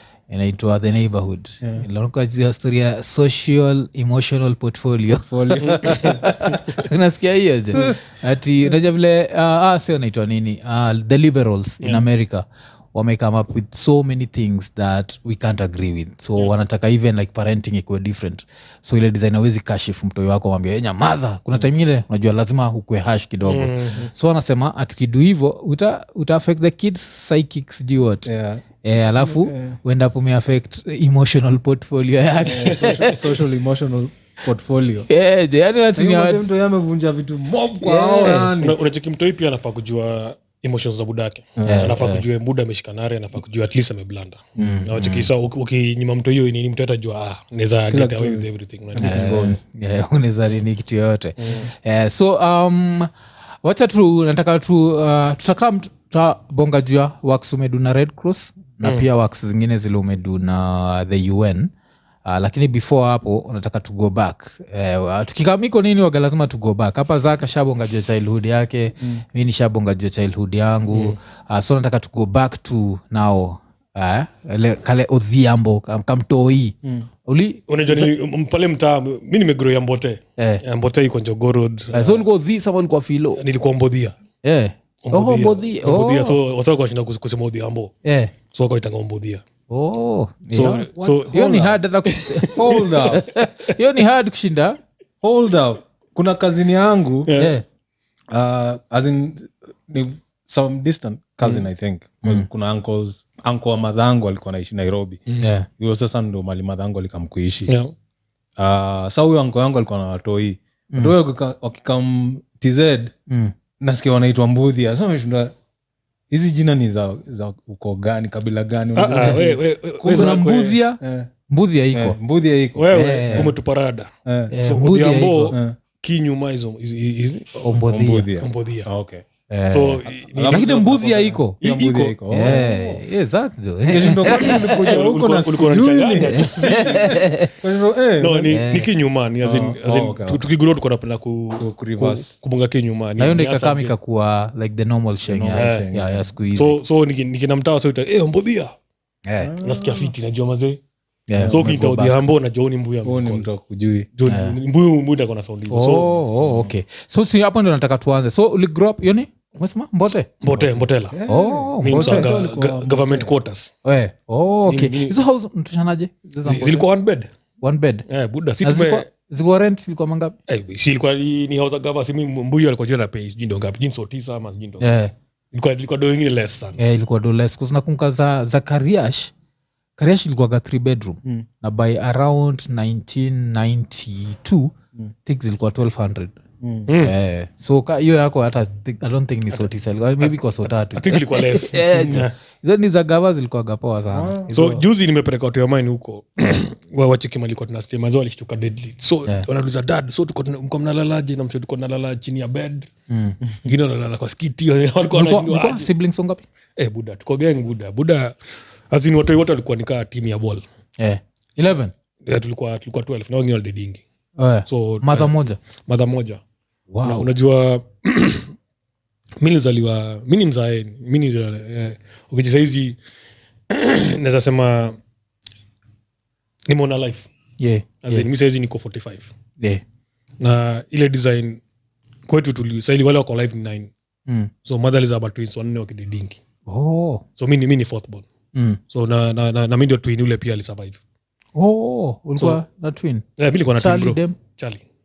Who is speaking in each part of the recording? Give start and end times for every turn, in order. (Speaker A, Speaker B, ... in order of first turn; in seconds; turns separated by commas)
Speaker A: 0.3-28.3, Speaker B: 5.3-6.6, Speaker C: 5.6-6.2, Speaker C: 23.4-24.1, Speaker B: 28.2-29.8, Speaker A: 28.8-33.3, Speaker B: 32.4-35.1, Speaker C: 32.6-33.1, Speaker A: 35.1-36.5, Speaker B: 36.0-38.8, Speaker A: 37.8-38.5, Speaker C: 38.3-49.5, Speaker B: 41.6-42.0, Speaker A: 41.6-42.2, Speaker B: 44.6-44.9, Speaker A: 44.6-45.3, Speaker B: 47.9-49.6, Speaker A: 49.0-53.1, Speaker C: 51.4-51.7, Speaker A: 53.6-61.7, Speaker A: 62.3-78.1, Speaker C: 70.9-71.2, Speaker C: 77.7-82.3, Speaker A: 81.9-83.4, Speaker C: 83.3-84.2, Speaker A: 84.4-86.4, Speaker C: 85.0-87.9, Speaker A: 88.0-88.3, Speaker C: 88.5-89.4, Speaker A: 89.7-94.8, Speaker C: 90.5-93.8, Speaker B: 91.3-91.7, Speaker B: 92.5-93.3, Speaker B: 95.2-97.3, Speaker C: 97.2-97.6, Speaker A: 97.4-97.6, Speaker B: 98.3-105.2, Speaker C: 105.3-105.5, Speaker A: 105.4-105.7, Speaker B: 105.8-107.7, Speaker C: 107.7-107.9, Speaker B: 108.6-113.1, Speaker A: 113.3-113.5, Speaker B: 113.8-115.5, Speaker B: 116.3-120.5, Speaker C: 119.0-120.8, Speaker A: 119.2-122.2, Speaker B: 121.0-121.3, Speaker B: 121.9-123.5, Speaker C: 122.8-124.1, Speaker A: 122.9-123.5, Speaker B: 124.2-124.5, Speaker A: 124.5-125.6, Speaker C: 124.6-127.6, Speaker B: 125.5-125.8, Speaker A: 127.6-128.3, Speaker B: 127.7-129.2, Speaker C: 128.4-128.9, Speaker A: 129.5-131.6, Speaker C: 129.7-132.2, Speaker B: 130.3-133.0, Speaker A: 132.3-134.9, Speaker B: 133.9-138.6, Speaker C: 134.3-137.3, Speaker A: 136.3-137.5, Speaker C: 138.2-143.9, Speaker A: 138.5-138.9, Speaker B: 139.4-140.4, Speaker B: 141.6-142.3, Speaker A: 143.2-146.8, Speaker B: 145.3-146.3, Speaker C: 145.6-145.9, Speaker C: 146.6-148.8, Speaker A: 149.3-149.5, Speaker B: 149.4-150.1, Speaker C: 149.6-150.8, Speaker A: 151.3-152.2, Speaker B: 151.4-151.7, Speaker C: 151.5-153.5, Speaker B: 153.0-154.1, Speaker C: 154.1-156.1, Speaker A: 154.3-154.6, Speaker A: 155.7-160.7, Speaker B: 156.1-156.7, Speaker C: 160.4-161.2, Speaker B: 161.1-163.3, Speaker A: 161.3-162.4, Speaker C: 161.8-163.7, Speaker A: 163.8-166.9, Speaker C: 164.7-165.2, Speaker C: 166.4-167.3, Speaker A: 167.6-168.1, Speaker C: 168.1-169.1, Speaker A: 168.6-170.4, Speaker C: 170.5-175.0, Speaker A: 174.8-175.1, Speaker C: 175.5-176.8, Speaker A: 176.8-179.3, Speaker A: 180.0-184.7, Speaker A: 185.3-186.4, Speaker B: 186.6-186.9, Speaker C: 186.9-187.2, Speaker A: 187.0-194.8, Speaker C: 190.2-192.3, Speaker B: 194.1-194.5, Speaker C: 194.5-202.9, Speaker A: 203.1-203.4, Speaker C: 203.6-205.9, Speaker A: 205.1-206.4, Speaker C: 206.8-208.4, Speaker C: 208.9-210.6, Speaker A: 211.0-211.9, Speaker C: 212.3-214.0, Speaker A: 214.4-215.6, Speaker C: 214.7-216.4, Speaker A: 216.9-217.3, Speaker C: 217.0-218.5, Speaker C: 219.4-223.0, Speaker C: 223.7-225.0, Speaker C: 226.7-227.3, Speaker A: 227.6-228.3, Speaker C: 228.0-229.3, Speaker C: 230.4-231.6, Speaker C: 232.3-233.9, Speaker C: 234.6-236.4, Speaker A: 236.7-237.2, Speaker C: 237.4-238.3, Speaker A: 238.5-238.8, Speaker C: 238.9-241.0, Speaker A: 241.6-244.4, Speaker C: 243.4-244.8